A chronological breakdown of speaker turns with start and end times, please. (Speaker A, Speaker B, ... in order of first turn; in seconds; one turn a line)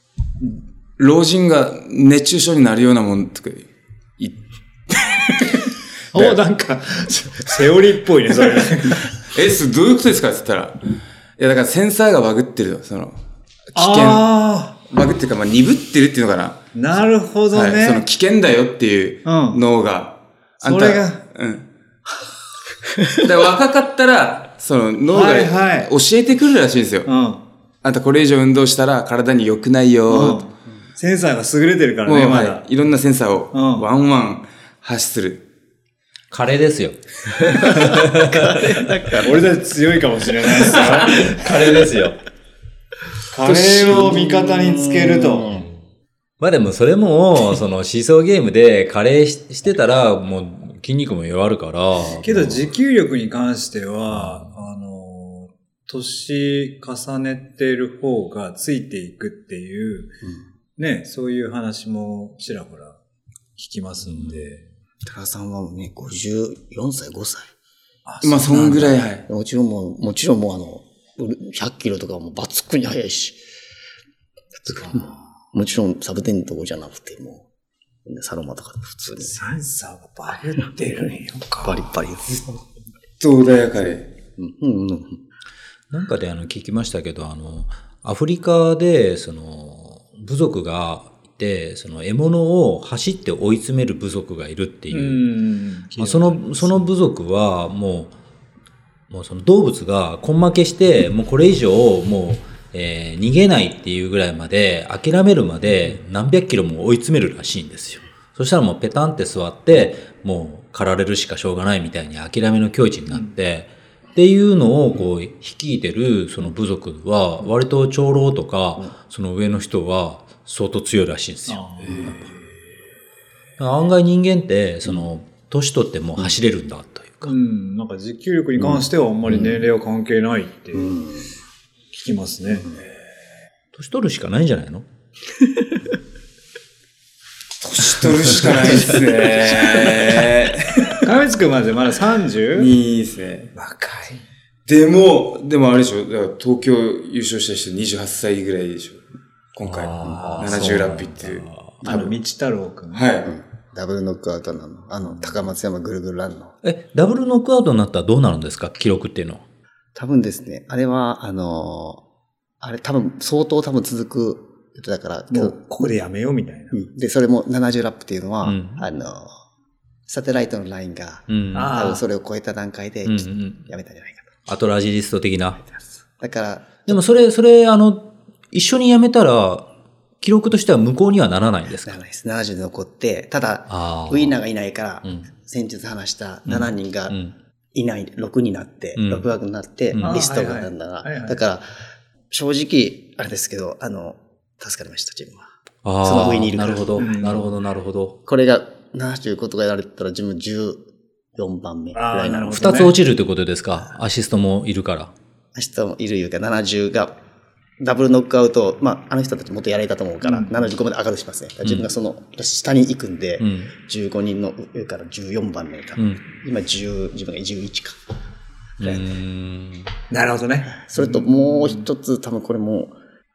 Speaker A: 0.4-6.4
Speaker B: 6.1-9.2
Speaker A: 9.0-10.8
Speaker A: 11.4-13.2
Speaker A: 13.7-14.3
Speaker B: 13.8-14.7
Speaker A: 14.9-16.7
Speaker B: 16.7-18.0
Speaker A: 17.5-21.7
Speaker B: 19.2-19.6
Speaker B: 20.6-21.2
Speaker A: 23.2-27.1
Speaker B: 25.1-25.9
Speaker B: 27.1-27.4
Speaker A: 27.8-30.4
Speaker B: 30.1-32.6
Speaker C: 30.1-30.7
Speaker A: 32.0-35.4
Speaker B: 33.5-33.9
Speaker D: 36.3-38.7
Speaker C: 37.4-39.4
Speaker B: 39.2-41.7
Speaker D: 40.6-42.2
Speaker B: 43.3-45.6
Speaker A: 43.4-44.2
Speaker C: 43.9-45.6
Speaker D: 46.4-52.7
Speaker B: 52.1-60.1
Speaker D: 54.1-54.5
Speaker B: 60.8-63.0
Speaker B: 63.6-64.6
Speaker C: 65.0-67.5
Speaker B: 68.0-69.0
Speaker A: 68.2-69.2
Speaker C: 69.2-73.4
Speaker C: 74.6-77.4
Speaker C: 78.0-79.3
Speaker B: 79.2-81.9
Speaker C: 81.6-82.5
Speaker A: 83.2-84.1
Speaker C: 84.4-85.2
Speaker D: 85.9-95.2
Speaker B: 94.9-96.8
Speaker D: 96.0-98.1
Speaker D: 99.1-122.2
Speaker B: 121.5-122.2
Speaker D: 123.6-127.3
Speaker B: 127.2-131.0
Speaker C: 130.8-131.3
Speaker B: 131.9-132.7
Speaker D: 133.7-134.8
Speaker A: 137.6-141.1
Speaker B: 141.0-142.7
Speaker A: 142.5-143.5
Speaker B: 143.5-144.2
Speaker A: 144.7-149.0
Speaker A: 149.5-151.5
Speaker D: 149.6-151.9
Speaker B: 150.2-150.7
Speaker B: 151.8-153.1
Speaker C: 151.8-152.1
Speaker A: 152.9-153.3
Speaker C: 153.2-156.5
Speaker D: 156.6-159.4
Speaker C: 159.9-162.0
Speaker C: 162.6-165.6
Speaker B: 165.3-166.8
Speaker C: 166.7-169.4
Speaker D: 168.4-168.8
Speaker C: 170.1-174.3
Speaker D: 171.3-171.8
Speaker B: 171.5-172.0
Speaker D: 173.0-173.6
Speaker D: 174.5-175.6
Speaker C: 175.7-177.0
Speaker D: 176.9-179.7
Speaker D: 180.2-182.0
Speaker C: 181.8-187.2
Speaker D: 183.7-184.3
Speaker D: 186.5-187.3
Speaker C: 187.7-191.7
Speaker D: 188.9-189.3
Speaker D: 189.9-190.2
Speaker B: 190.0-191.4
Speaker C: 192.3-195.5
Speaker D: 195.8-198.2
Speaker C: 196.0-197.3
Speaker B: 197.0-197.5
Speaker C: 198.2-200.8
Speaker C: 201.3-202.8
Speaker B: 201.9-202.9
Speaker D: 202.5-205.1
Speaker C: 205.5-207.1
Speaker C: 207.8-218.0
Speaker B: 210.2-210.6
Speaker D: 213.4-213.7
Speaker D: 218.8-219.9
Speaker C: 218.8-219.1
Speaker B: 220.1-221.8
Speaker C: 220.7-222.9